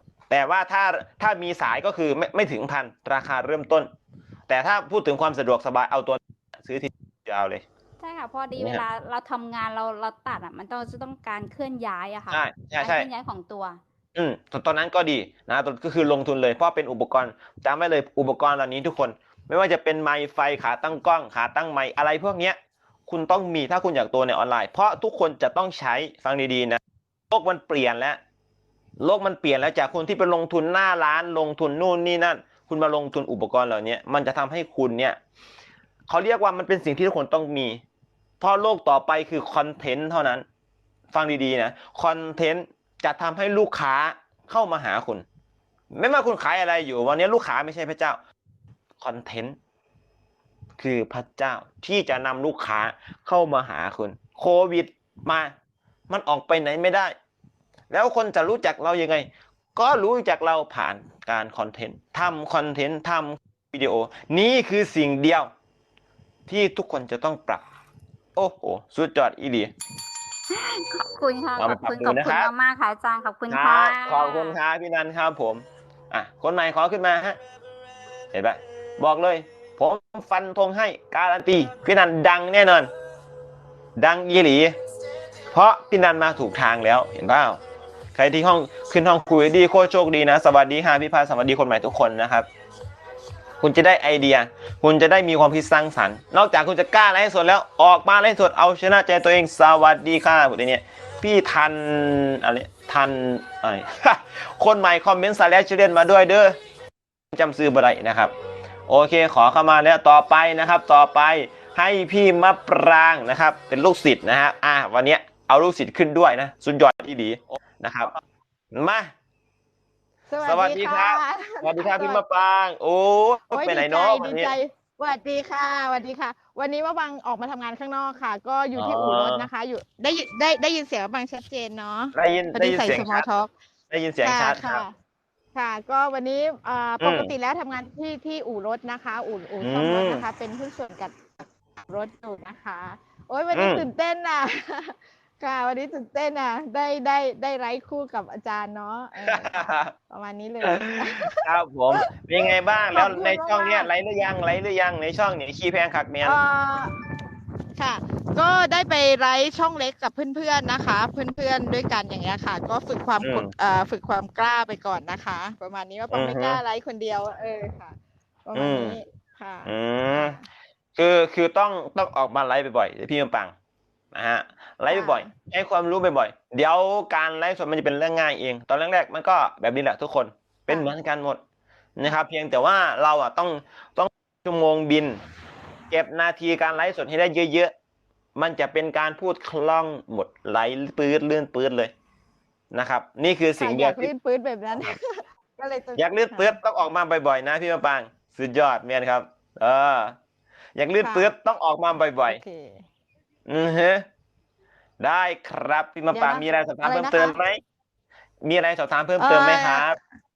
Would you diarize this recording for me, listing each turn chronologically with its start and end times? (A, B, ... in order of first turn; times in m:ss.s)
0:00.3-0:03.9 A
0:04.5-0:07.6 A
0:08.0-0:13.8 B
0:08.6-0:08.8 A
0:12.3-0:13.1 A
0:14.2-0:28.2 A
0:29.0-0:35.2 A
0:36.1-0:37.8 A
0:38.4-0:40.4 A
0:41.1-0:45.2 A
0:45.9-0:48.2 A
0:49.0-0:49.6 A
0:50.8-0:55.5 A
0:56.1-0:57.1 A
0:57.9-1:05.5 A
1:06.5-1:07.6 A
1:08.4-1:09.7 A
1:10.5-1:14.6 B
1:11.6-1:12.5 A
1:13.5-1:17.4 A
1:18.3-1:22.9 A
1:24.0-1:24.8 A
1:25.5-1:27.6 A
1:28.1-1:32.5 A
1:33.6-1:46.6 A
1:47.3-1:48.3 A
1:48.9-1:58.2 A
1:58.7-1:59.1 A
2:00.3-2:02.2 C
2:00.4-2:04.5 A
2:03.5-2:13.5 C
2:08.7-2:09.5 A
2:12.1-2:13.3 A
2:13.9-2:14.8 A
2:14.2-2:14.9 C
2:15.5-2:31.4 C
2:17.0-2:17.3 A
2:19.6-2:20.2 A
2:23.5-2:23.8 A
2:29.2-2:29.9 A
2:30.6-2:36.4 A
2:32.0-2:33.9 C
2:36.2-2:36.9 C
2:37.8-2:50.4 C
2:43.2-2:43.5 A
2:46.1-2:46.6 A
2:48.5-2:49.0 A
2:49.6-2:50.4 A
2:51.0-2:53.5 A
2:54.1-3:01.4 A
2:54.9-2:55.3 C
3:02.0-3:05.2 A
3:05.9-3:07.7 A
3:08.4-3:11.9 A
3:12.7-3:14.1 A
3:13.6-3:16.6 C
3:16.0-3:20.2 A
3:20.8-3:22.4 A
3:21.0-3:21.3 C
3:22.2-3:22.8 C
3:23.5-3:24.0 A
3:25.0-3:27.6 A
3:26.1-3:27.4 C
3:28.4-3:30.0 A
3:29.2-3:29.9 C